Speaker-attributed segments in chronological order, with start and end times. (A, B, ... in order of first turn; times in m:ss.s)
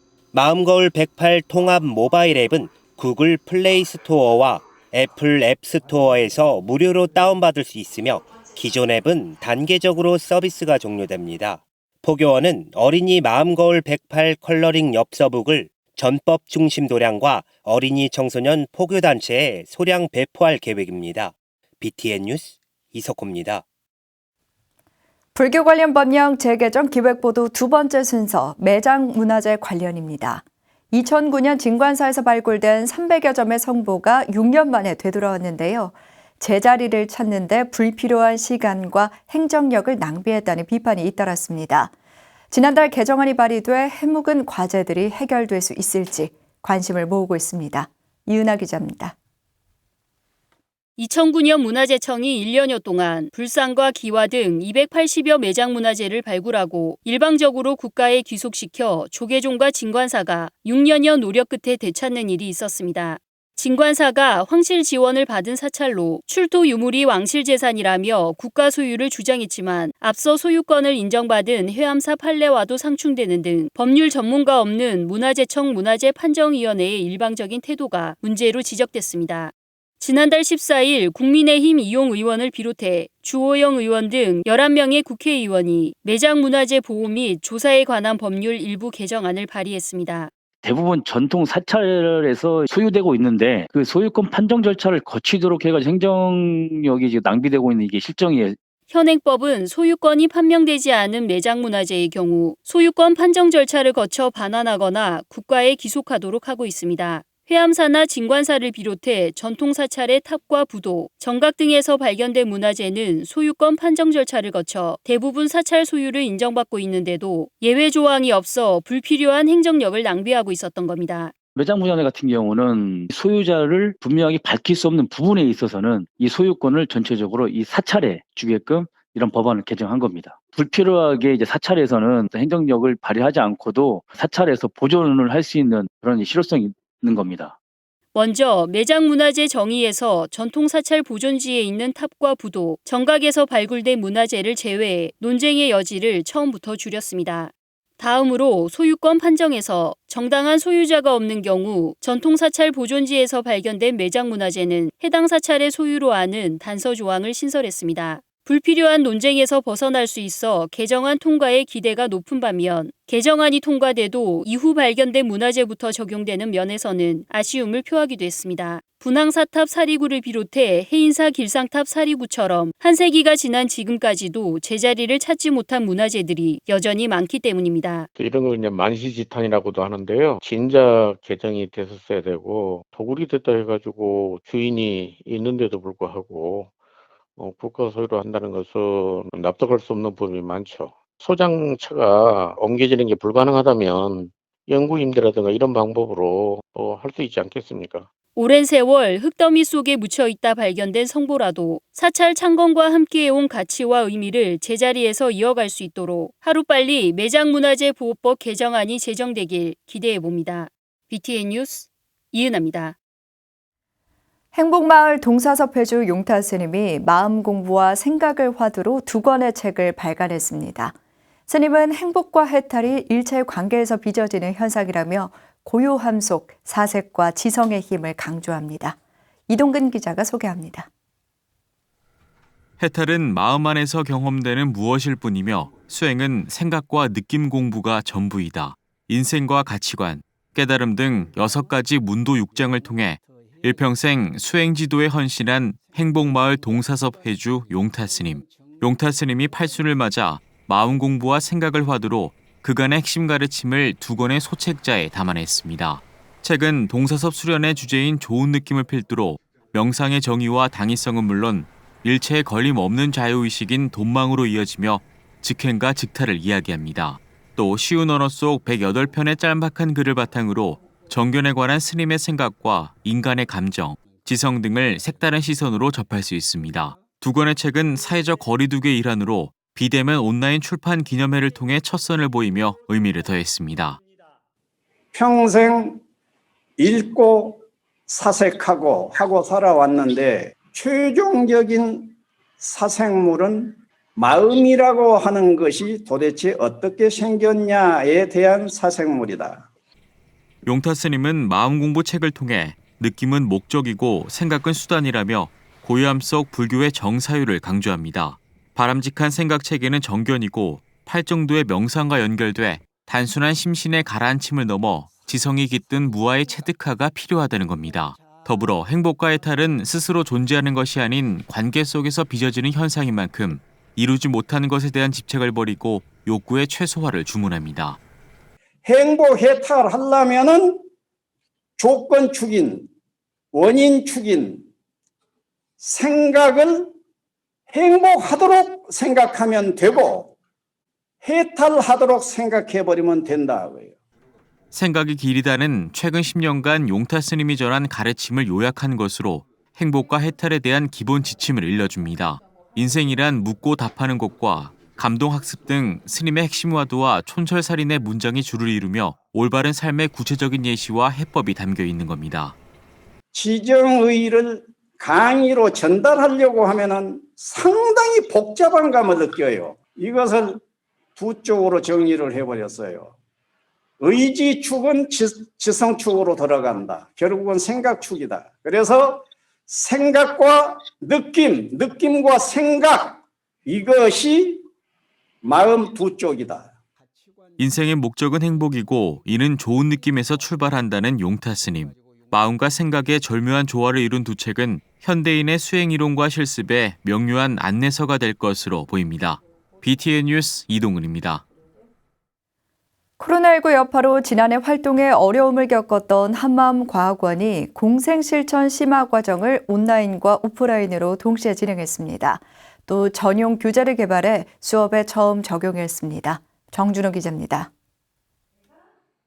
0:00.3-0:23.6 A
0:25.3-0:41.9 B
0:42.5-0:49.1 B
0:51.0-1:30.3 C
1:30.6-1:38.6 D
1:38.9-2:01.3 C
2:01.6-2:17.5 D
2:18.1-2:58.1 C
2:58.1-3:06.7 E
3:07.4-3:18.1 E
3:18.4-3:33.0 C
3:34.5-3:40.9 B
3:41.5-3:49.0 B
3:49.5-3:50.9 B
3:52.8-4:44.0 F
4:45.1-4:46.0 G
4:46.8-4:47.6 G
4:48.1-4:52.0 G
4:52.6-4:53.7 G
4:54.2-4:59.6 G
5:00.6-5:28.0 F
5:28.8-5:30.7 G
5:31.8-5:32.8 G
5:33.5-5:34.6 G
5:35.8-5:36.8 G
5:37.7-5:40.3 G
5:41.2-5:43.9 G
5:44.7-6:02.6 F
6:03.3-6:10.6 G
6:11.2-6:13.1 G
6:14.0-6:19.2 G
6:19.7-6:23.1 G
6:23.7-6:24.5 G
6:25.4-6:26.7 G
6:27.6-6:41.4 F
6:43.2-6:57.7 B